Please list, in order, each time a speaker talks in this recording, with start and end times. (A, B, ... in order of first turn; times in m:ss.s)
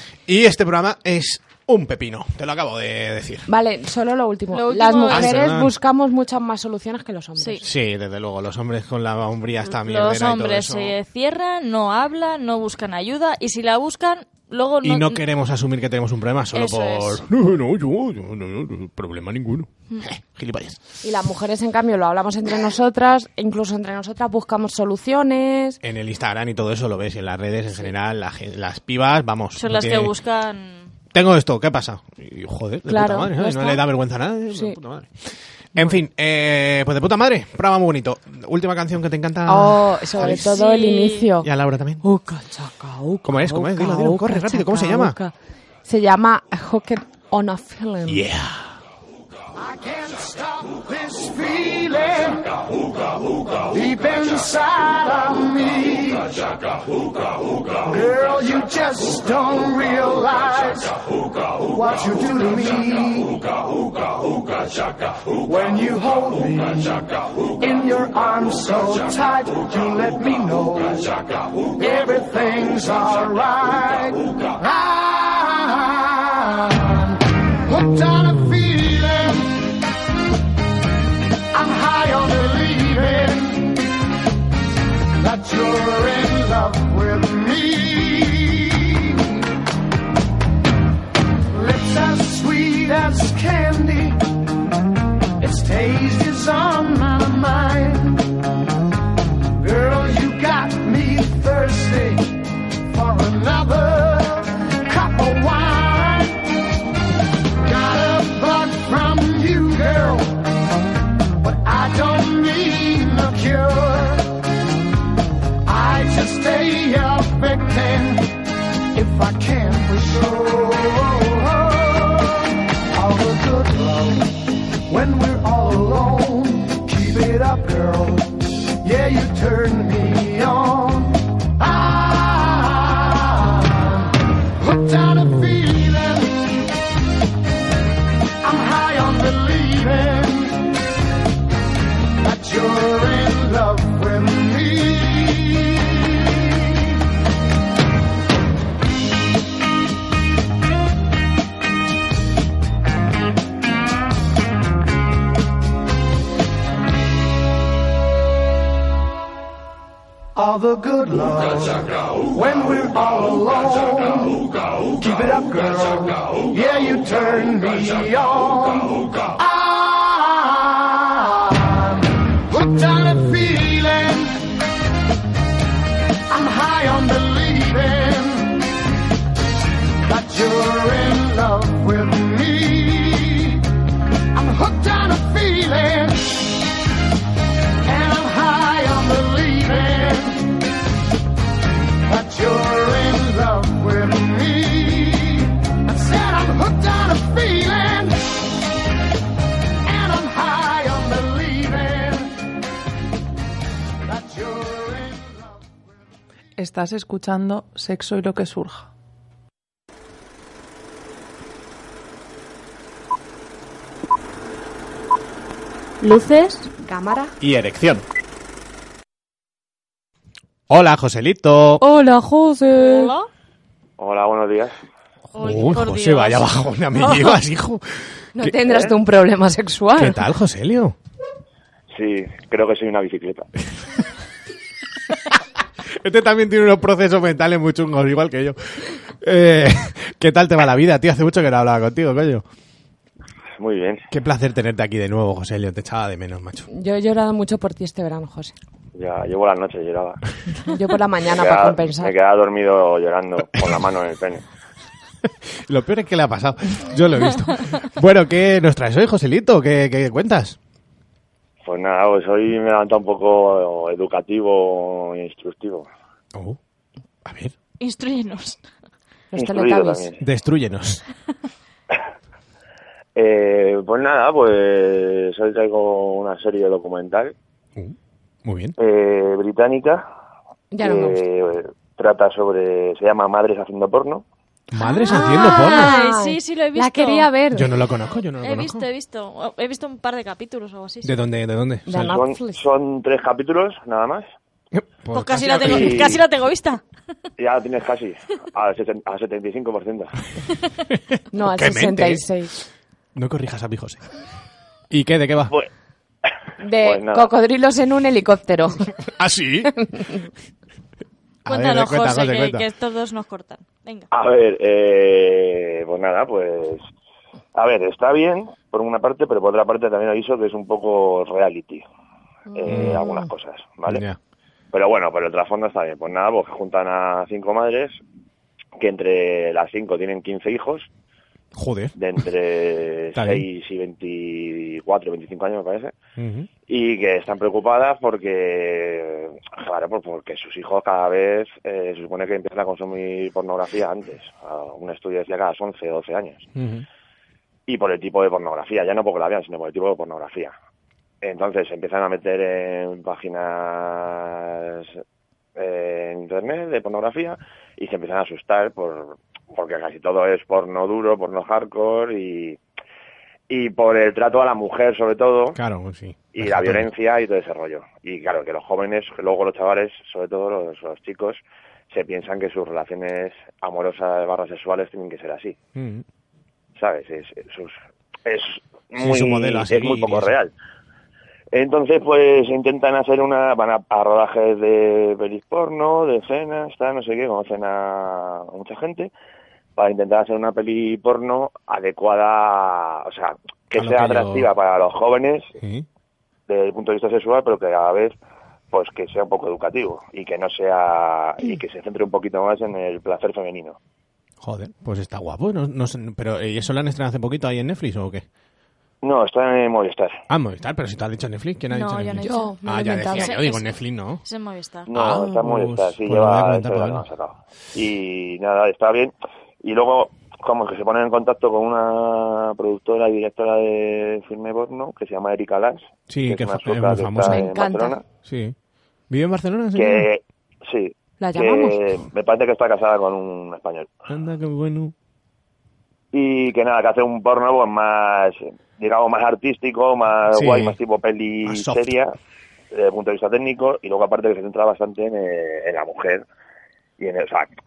0:00.3-0:03.5 A
0:03.5-0:07.7 B
0:04.5-0:05.4 C
0:05.1-0:05.7 A
0:07.6-0:11.0 A
0:09.7-0:15.2 C
0:14.8-0:20.8 A
0:16.5-0:17.2 C
0:21.0-0:25.8 B
0:25.8-0:30.1 A
0:29.6-0:30.9 C
0:31.1-0:35.2 A
0:32.9-0:33.8 B
0:34.5-0:34.8 B
0:35.7-0:40.7 A
0:39.5-0:41.5 B
0:40.2-0:41.3 C
0:41.4-0:42.0 A
0:42.0-0:45.3 B
0:43.2-0:45.2 A
0:45.8-0:48.2 B
0:48.1-0:48.7 A
0:49.6-0:52.5 D
0:53.5-0:56.5 D
0:57.8-1:01.0 D
1:01.6-1:03.6 D
1:05.3-1:07.1 D
1:07.6-1:19.7 D
1:21.5-1:23.8 D
1:25.2-1:29.4 D
1:31.5-1:34.2 D
1:35.4-1:38.3 D
1:39.6-1:46.4 D
1:47.6-1:50.4 D
1:51.4-1:54.3 D
1:55.6-1:58.3 D
1:58.9-2:16.6 D
2:18.4-2:20.7 D
2:22.2-2:26.8 D
2:40.4-2:54.5 D
2:56.3-2:58.7 D
3:00.0-3:03.6 D
3:04.3-3:06.6 D
3:07.8-3:10.6 D
3:12.0-3:18.4 D
3:19.8-3:22.3 D
3:24.0-3:25.7 D
3:26.6-3:28.9 E
3:36.0-3:36.7 E
3:36.9-3:37.4 B
3:37.4-3:38.0 A
3:40.7-3:41.8 A
3:41.8-3:43.1 B
3:42.8-3:43.3 C
3:44.0-3:44.7 F
3:45.3-3:46.5 C
3:45.4-3:48.6 A
3:48.4-3:50.2 B
3:48.7-3:48.9 F
3:50.0-3:51.0 A
3:51.9-3:53.5 F
3:55.9-4:02.4 A
4:03.6-4:04.1 F
4:04.1-4:06.7 A
4:06.7-4:08.6 B
4:09.0-4:10.2 F
4:10.6-4:12.1 B
4:11.3-4:14.4 F
4:15.3-4:20.6 A
4:21.6-4:25.9 F
4:27.2-4:27.5 A
4:27.8-4:28.6 C
4:29.3-4:30.1 B
4:29.4-4:30.2 F
4:30.2-4:31.0 A
4:33.2-4:37.4 F
4:37.8-4:38.8 A
4:38.8-4:40.1 F
4:40.7-4:41.2 B
4:40.8-4:44.2 F
4:44.7-4:45.9 A
4:44.8-4:47.3 C
4:44.9-4:47.7 B
4:47.5-4:48.8 A
4:48.4-4:51.2 C
4:51.0-4:52.2 A
4:51.9-4:52.6 B
4:52.1-4:54.3 F
4:54.7-4:56.2 A
4:55.1-4:56.8 C
4:55.6-4:56.2 F
4:57.4-5:00.1 F
5:00.9-5:02.3 A
5:01.3-5:02.6 B
5:03.2-5:04.0 A
5:04.9-5:05.5 A
5:06.6-5:08.9 B
5:06.8-5:07.3 F
5:09.1-5:09.7 A
5:09.9-5:10.2 B
5:11.4-5:12.6 A
5:11.5-5:14.1 C
5:14.1-5:16.8 F
5:17.6-5:21.8 F
5:22.5-5:23.3 B
5:22.6-5:24.0 F
5:22.7-5:23.0 A
5:23.9-5:24.2 A
5:24.7-5:28.0 F
5:28.8-5:30.9 F
5:31.6-5:32.0 A
5:32.0-5:35.9 F
5:33.2-5:33.4 A
5:36.2-5:36.5 A
5:36.7-5:46.5 F
5:46.6-5:46.9 A
5:47.7-5:50.5 F
5:51.2-5:55.0 F
5:55.6-6:02.6 F
6:03.5-6:05.6 F
6:05.5-6:06.9 A
6:06.3-6:15.6 F
6:15.8-6:16.0 A
6:16.8-6:20.5 F
6:19.0-6:20.3 A
6:21.5-6:29.1 F
6:29.8-6:35.5 F
6:33.7-6:34.5 A
6:35.6-6:35.9 A
6:36.5-6:38.2 F
6:38.7-6:43.8 F
6:44.4-6:48.2 A
6:49.0-6:50.2 F
6:50.3-6:54.2 A
6:51.7-6:54.9 C
6:52.2-6:53.4 B
6:54.9-7:08.0 F
6:54.9-6:57.1 A
7:06.1-7:07.5 A
7:07.2-7:08.0 B
7:08.2-7:08.6 A
7:09.1-7:10.1 A
7:09.8-7:14.0 F
7:11.2-7:11.8 B
7:14.1-7:14.9 A
7:16.1-7:22.1 F
7:20.3-7:20.8 A
7:21.4-7:21.9 A
7:22.7-7:26.2 F
7:27.0-7:27.5 F